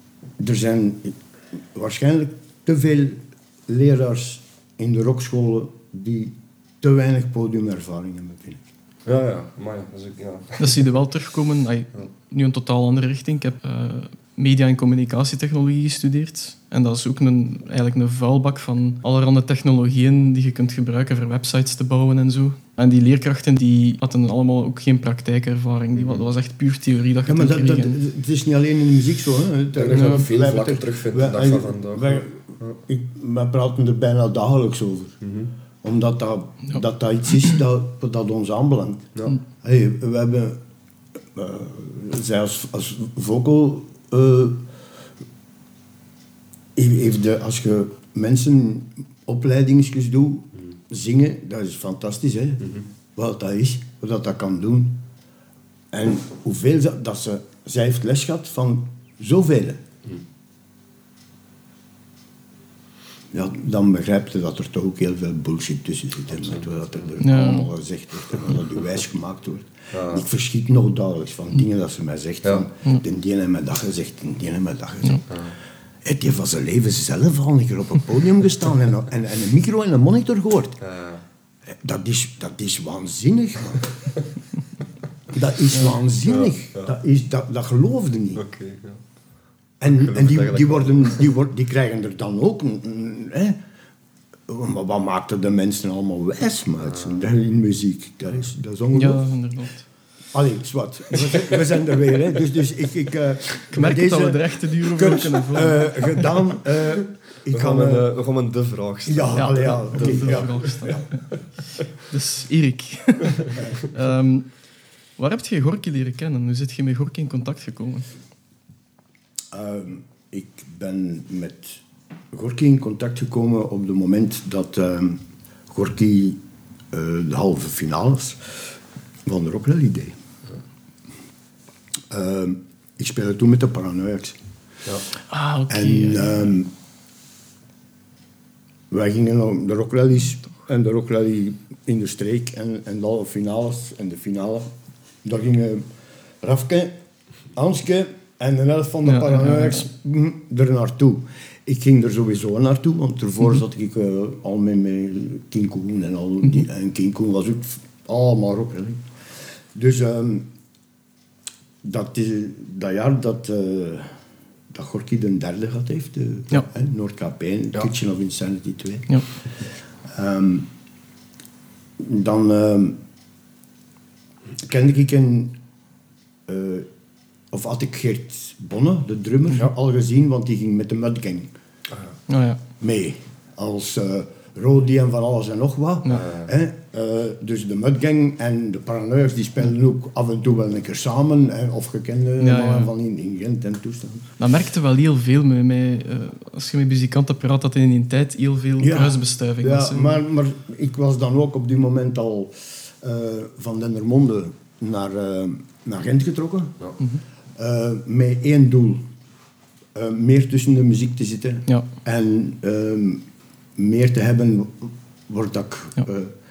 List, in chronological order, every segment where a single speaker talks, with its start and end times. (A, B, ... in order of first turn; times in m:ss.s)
0:00.4-0:08.7 A
0:09.0-0:10.8 B
0:10.6-0:28.0 C
0:26.0-0:26.3 B
0:27.2-0:35.2 A
0:29.7-0:32.8 B
0:29.9-0:30.2 C
0:35.2-0:35.5 B
0:35.8-0:39.1 A
0:39.6-0:40.6 A
0:41.3-0:44.6 A
0:46.8-0:55.0 A
0:55.9-0:59.8 A
1:03.3-1:15.3 A
1:07.2-1:07.7 C
1:09.9-1:10.2 B
1:16.0-1:20.8 A
1:20.8-1:21.2 B
1:21.7-1:23.9 A
1:25.3-1:28.4 A
1:26.2-1:26.9 B
1:28.4-1:29.0 B
1:29.8-1:33.6 A
1:29.8-1:31.2 B
1:34.5-1:39.2 A
1:36.8-1:37.2 B
1:38.9-1:39.8 C
1:40.3-1:48.1 A
1:43.7-1:46.3 C
1:47.5-1:51.0 B
1:49.0-1:51.0 A
1:49.3-1:51.2 C
1:52.0-1:54.5 C
1:55.2-1:58.1 C
1:59.5-2:06.4 A
2:06.9-2:08.6 A
2:09.2-2:10.2 A
2:12.1-2:14.4 A
2:15.3-2:16.5 C
2:15.7-2:16.7 A
2:18.9-2:24.7 A
2:25.2-2:25.8 A
2:26.4-2:26.9 A
2:27.5-2:39.0 A
2:29.0-2:29.8 C
2:39.7-2:40.5 A
2:41.8-2:44.2 A
2:44.7-2:50.7 A
2:52.0-2:53.0 A
2:54.6-2:55.5 A
2:56.4-2:56.9 A
2:57.5-3:01.5 A
3:02.3-3:02.6 C
3:02.8-3:14.2 A
3:06.1-3:06.5 B
3:12.4-3:12.9 C
3:14.4-3:20.2 C
3:18.8-3:26.7 A
3:27.6-3:29.0 A
3:29.9-3:33.2 A
3:33.8-3:36.3 A